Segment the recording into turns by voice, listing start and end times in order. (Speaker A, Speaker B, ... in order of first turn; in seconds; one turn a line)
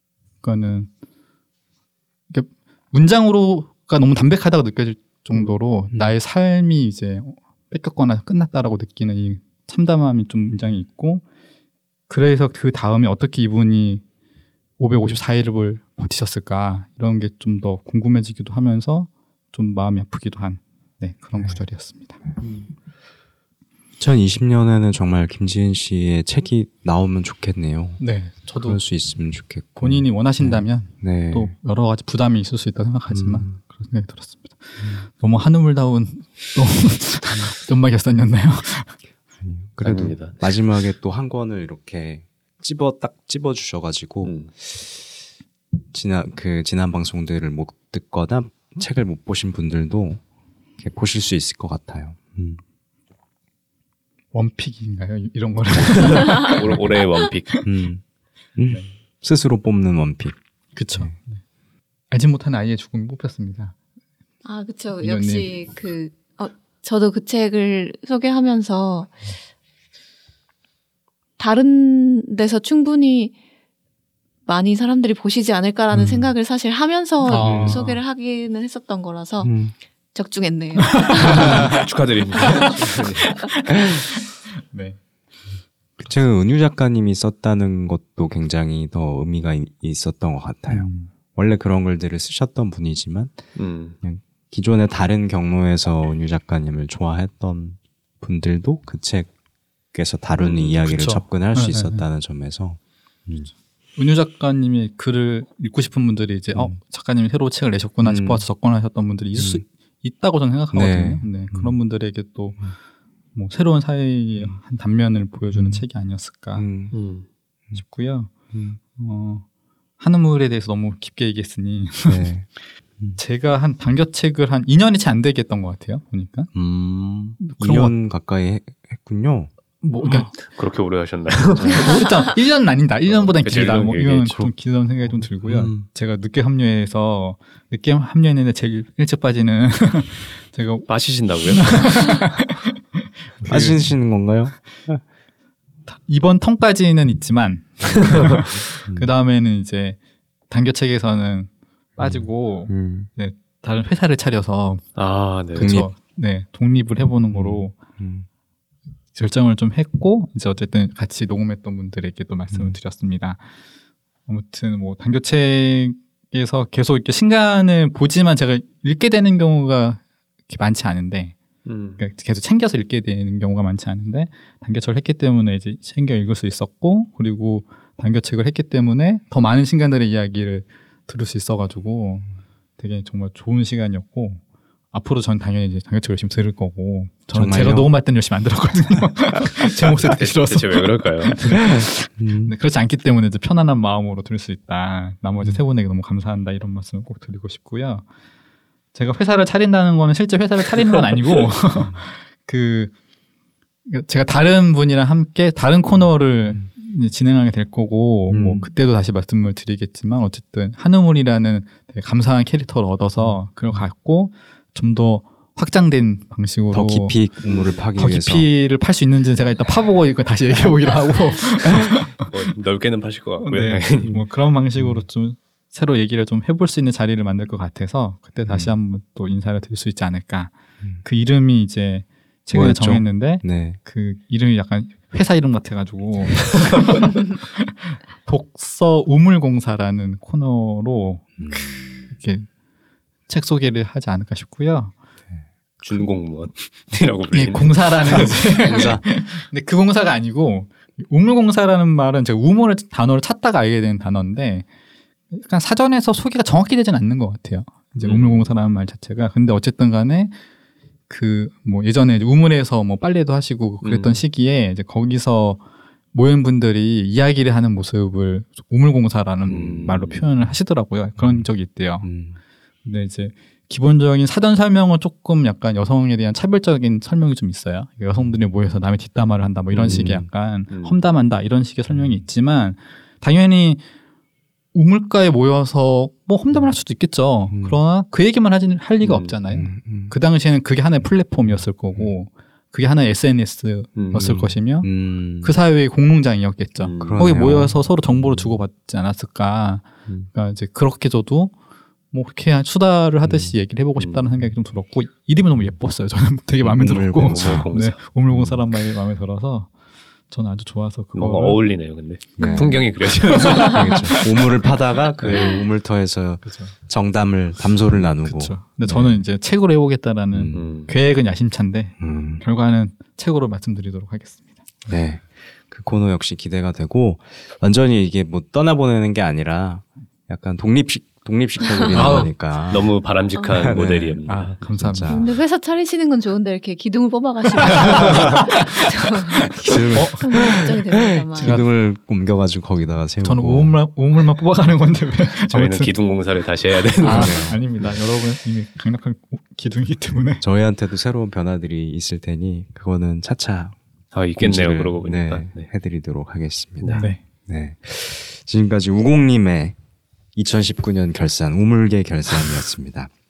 Speaker A: 0.4-0.9
Speaker A: 2.3-11.2
Speaker A: 12.1-14.0
Speaker A: 14.8-22.2
Speaker B: 24.0-28.0
Speaker A: 28.0-28.8
Speaker B: 28.6-31.5
Speaker A: 29.8-39.0
Speaker B: 33.1-33.5
Speaker B: 39.4-44.9
Speaker C: 39.8-40.4
Speaker C: 44.2-44.5
Speaker B: 45.9-50.2
Speaker B: 50.8-52.6
Speaker A: 54.3-57.0
Speaker C: 55.9-57.5
Speaker B: 57.6-58.0
Speaker B: 58.6-60.4
Speaker A: 60.8-61.4
Speaker A: 62.1-63.8
Speaker D: 64.5-69.3
Speaker A: 65.0-65.5
Speaker D: 71.4-73.3
Speaker D: 74.5-79.5
Speaker B: 75.9-76.3
Speaker A: 77.2-78.0
Speaker B: 77.3-77.8
Speaker B: 79.4-79.7
Speaker D: 80.1-81.7
Speaker C: 81.2-83.3
Speaker A: 81.2-81.8
Speaker D: 82.4-82.7
Speaker A: 83.7-84.0
Speaker A: 84.7-85.0
Speaker B: 86.0-93.4
Speaker A: 90.7-91.1
Speaker C: 93.6-94.0
Speaker B: 94.0-99.3
Speaker B: 99.9-103.5
Speaker C: 100.4-100.8
Speaker A: 100.9-102.0
Speaker A: 104.0-112.6
Speaker B: 108.0-108.5
Speaker B: 109.3-109.6
Speaker B: 110.7-111.7
Speaker A: 113.3-116.7
Speaker B: 115.5-115.8
Speaker B: 116.5-116.9
Speaker C: 116.9-117.3
Speaker A: 117.8-118.3
Speaker B: 118.5-118.8
Speaker A: 118.9-119.5
Speaker A: 120.0-122.3
Speaker B: 122.1-122.5
Speaker A: 123.2-126.5
Speaker B: 126.5-129.5
Speaker A: 127.4-127.9
Speaker A: 129.8-130.3
Speaker C: 130.3-132.1
Speaker A: 131.7-140.9
Speaker C: 133.3-134.4
Speaker B: 135.4-135.8
Speaker C: 140.9-142.1
Speaker A: 141.5-143.9
Speaker B: 143.5-145.0
Speaker A: 145.9-150.0
Speaker A: 150.5-154.9
Speaker B: 152.0-153.1
Speaker C: 155.0-155.8
Speaker A: 155.5-157.8
Speaker B: 155.6-155.9
Speaker B: 157.3-158.3
Speaker A: 159.1-163.4
Speaker A: 164.3-171.4
Speaker C: 171.7-172.0
Speaker A: 172.0-182.3
Speaker A: 182.8-184.4
Speaker A: 184.9-198.0
Speaker B: 187.3-187.9
Speaker C: 189.9-191.6
Speaker B: 191.6-192.5
Speaker A: 198.9-202.9
Speaker A: 203.9-217.2
Speaker B: 208.3-208.7
Speaker B: 216.7-218.5
Speaker A: 218.0-222.3
Speaker C: 222.0-224.2
Speaker A: 223.4-242.5
Speaker B: 232.5-233.8
Speaker B: 241.4-241.8
Speaker A: 243.3-244.9
Speaker C: 245.8-248.9
Speaker A: 247.3-254.7
Speaker B: 248.6-249.0
Speaker A: 255.3-260.4
Speaker C: 258.0-258.4
Speaker A: 261.1-265.6
Speaker C: 263.8-264.2
Speaker A: 266.1-272.1
Speaker C: 269.5-270.2
Speaker B: 271.2-271.4
Speaker B: 272.0-272.4
Speaker A: 272.8-283.8
Speaker B: 279.7-280.3
Speaker C: 280.7-281.0
Speaker A: 284.7-294.9
Speaker B: 287.5-287.8
Speaker C: 289.0-289.3
Speaker B: 289.5-290.1
Speaker C: 294.0-294.4
Speaker B: 294.2-295.5
Speaker A: 295.4-301.5
Speaker C: 296.8-297.2
Speaker B: 297.0-298.5
Speaker A: 302.1-309.7
Speaker C: 304.0-304.3
Speaker B: 306.6-307.7
Speaker C: 307.1-308.0
Speaker B: 308.3-308.6
Speaker A: 310.3-311.6
Speaker C: 311.1-314.2
Speaker B: 312.4-319.2
Speaker D: 312.4-312.7
Speaker A: 313.1-314.2
Speaker C: 315.2-315.5
Speaker A: 316.4-316.7
Speaker A: 318.2-324.6
Speaker B: 320.3-320.6
Speaker C: 320.5-320.9
Speaker B: 322.0-322.4
Speaker B: 324.9-335.4
Speaker D: 331.6-332.2
Speaker A: 331.9-332.3
Speaker C: 332.7-334.6
Speaker D: 333.4-333.7
Speaker A: 334.2-335.1
Speaker D: 335.1-341.6
Speaker A: 337.9-338.2
Speaker B: 339.4-343.7
Speaker A: 339.9-340.6
Speaker A: 341.4-341.7
Speaker A: 343.2-345.9
Speaker C: 345.5-347.6
Speaker B: 347.0-347.6
Speaker A: 347.0-350.4
Speaker B: 350.4-353.8
Speaker C: 354.1-355.7
Speaker B: 354.4-359.8
Speaker C: 356.8-357.1
Speaker A: 356.9-357.2
Speaker B: 360.4-363.1